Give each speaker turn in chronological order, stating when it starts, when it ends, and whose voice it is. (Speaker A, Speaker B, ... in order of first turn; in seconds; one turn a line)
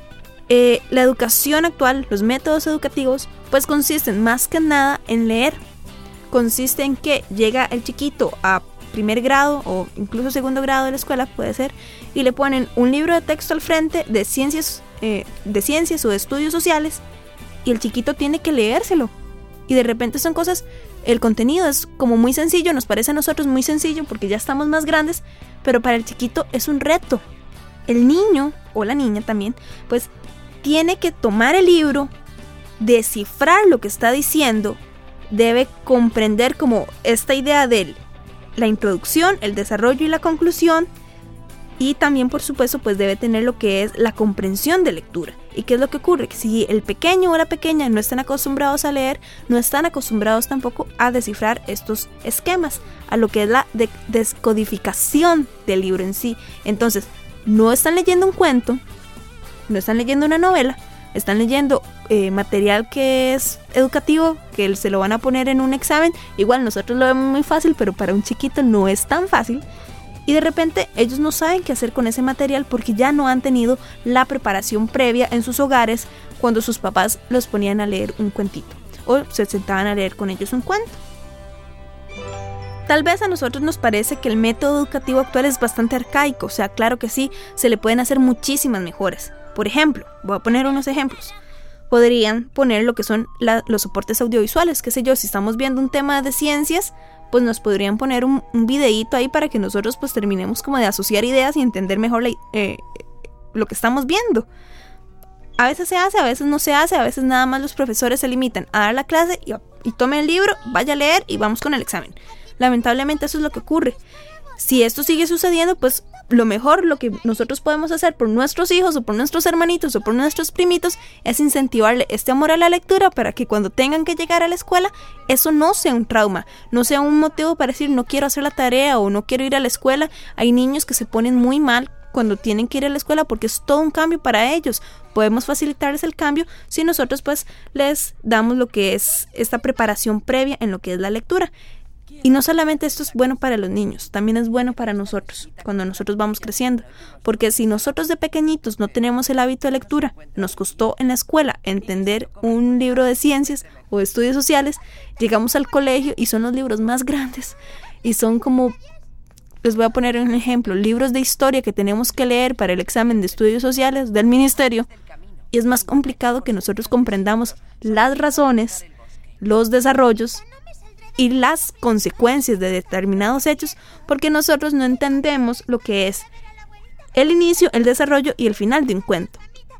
Speaker A: 0.5-5.6
Speaker A: 6.3-17.0
Speaker A: 17.6-19.1
Speaker A: 19.7-27.2
Speaker A: 27.9-30.1
Speaker A: 30.6-32.1
Speaker A: 32.8-34.8
Speaker A: 35.3-38.0
Speaker A: 38.5-40.9
Speaker A: 41.8-58.8
Speaker A: 59.7-69.6
Speaker A: 70.2-81.0
Speaker A: 82.9-91.3
Speaker A: 91.9-103.0
Speaker A: 103.5-104.5
Speaker A: 105.6-114.0
Speaker A: 114.6-141.5
Speaker A: 142.2-158.8
Speaker A: 159.6-164.9
Speaker A: 165.5-168.8
Speaker A: 169.4-170.4
Speaker A: 171.2-176.3
Speaker A: 177.1-179.4